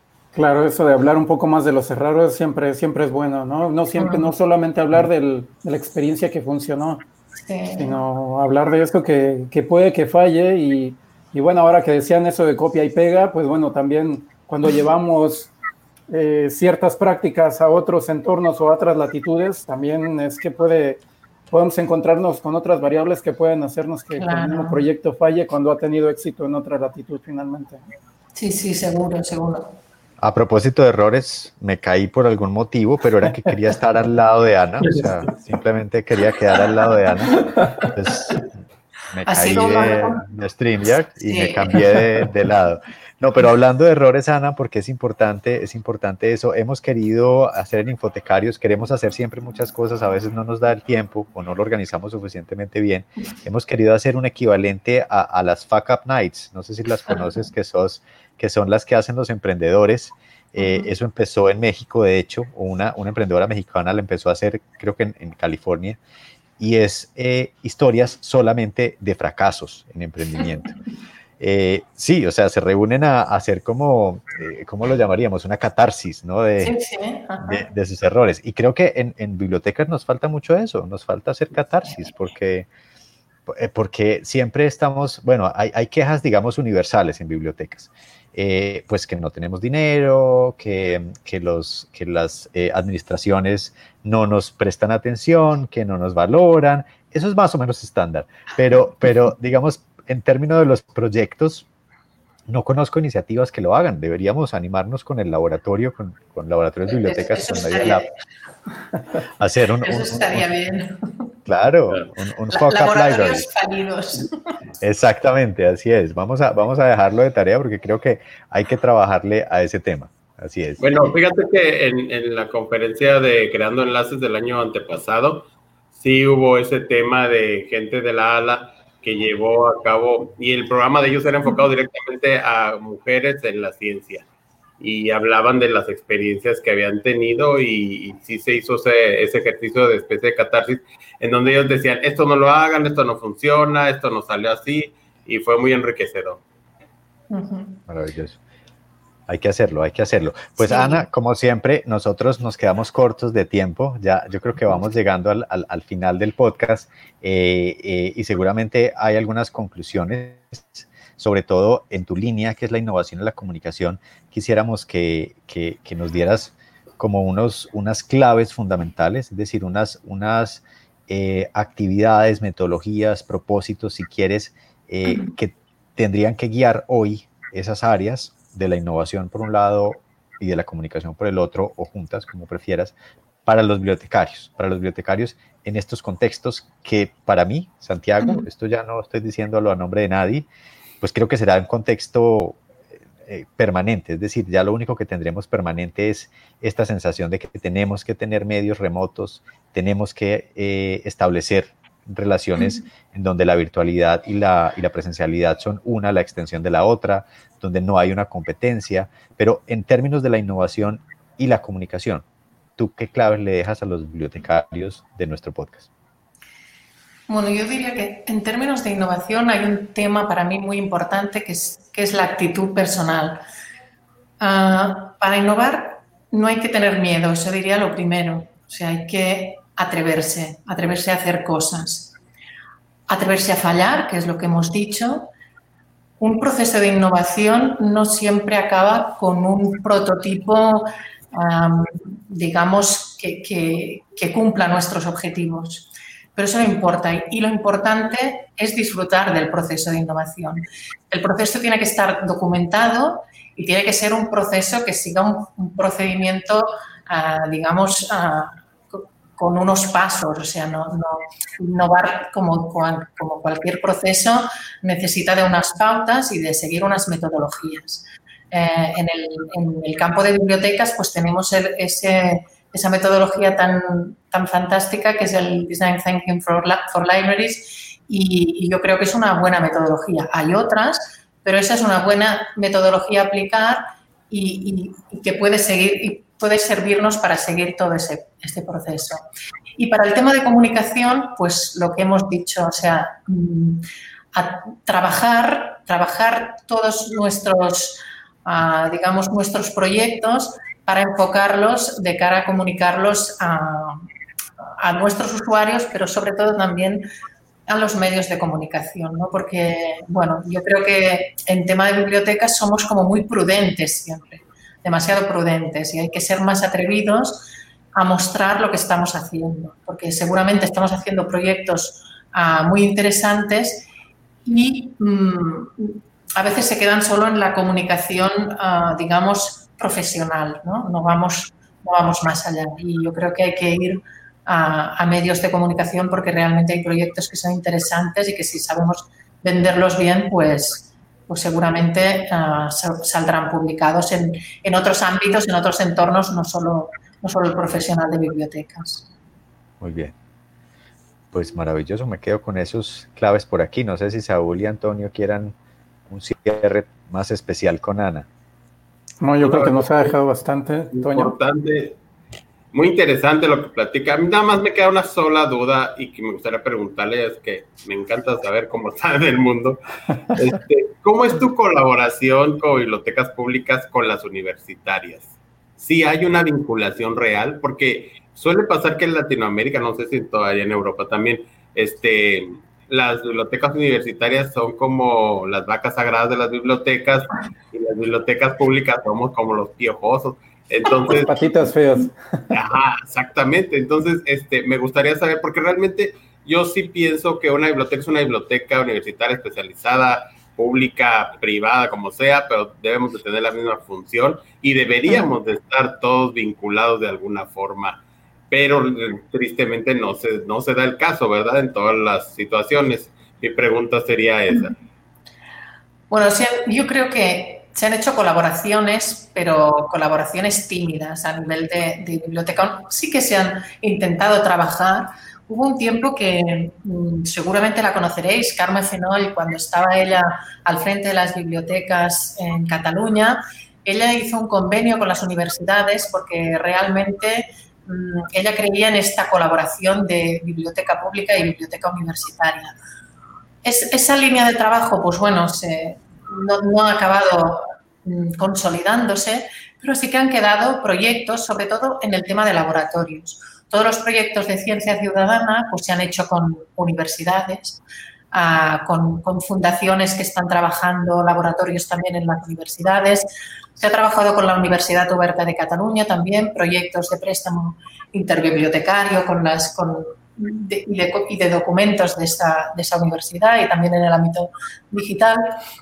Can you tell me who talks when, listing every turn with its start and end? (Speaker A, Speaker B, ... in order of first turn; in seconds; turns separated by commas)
Speaker A: 0.3-7.1, Speaker B: 4.0-4.3, Speaker B: 7.4-8.0, Speaker A: 7.8-15.5, Speaker A: 16.1-27.9, Speaker B: 24.2-24.9, Speaker B: 28.4-29.8, Speaker C: 30.2-38.5, Speaker C: 39.1-66.0, Speaker B: 39.3-40.2, Speaker B: 41.3-41.9, Speaker B: 57.1-57.4, Speaker B: 60.6-60.9, Speaker C: 66.6-70.8, Speaker C: 71.4-76.8, Speaker B: 76.6-77.7, Speaker C: 77.4-82.7, Speaker C: 83.5-101.7, Speaker C: 102.5-108.1, Speaker B: 106.9-108.1, Speaker C: 109.4-110.5, Speaker B: 109.8-111.3, Speaker C: 111.5-113.5, Speaker B: 112.5-114.3, Speaker C: 114.8-120.9, Speaker D: 120.8-134.3, Speaker D: 134.8-146.4, Speaker B: 147.3-147.8, Speaker C: 147.9-148.4, Speaker C: 149.3-182.9, Speaker B: 150.7-151.0, Speaker B: 175.1-175.3, Speaker C: 183.4-190.5, Speaker B: 188.2-188.5, Speaker C: 191.0-192.6, Speaker C: 193.2-212.2, Speaker C: 212.8-215.9, Speaker B: 217.3-223.4, Speaker B: 224.4-232.1, Speaker B: 233.1-235.3, Speaker B: 236.2-289.2, Speaker B: 289.8-304.1, Speaker B: 304.8-307.1, Speaker B: 307.7-323.9, Speaker B: 324.4-349.1, Speaker C: 349.8-350.1, Speaker C: 351.3-355.6, Speaker C: 356.1-358.3, Speaker A: 359.2-361.3, Speaker D: 359.4-360.1, Speaker D: 360.9-362.0, Speaker D: 362.7-369.8, Speaker D: 370.3-391.4, Speaker A: 391.2-392.5, Speaker D: 392.5-414.8, Speaker B: 416.1-442.8, Speaker B: 443.6-457.8, Speaker B: 458.3-475.6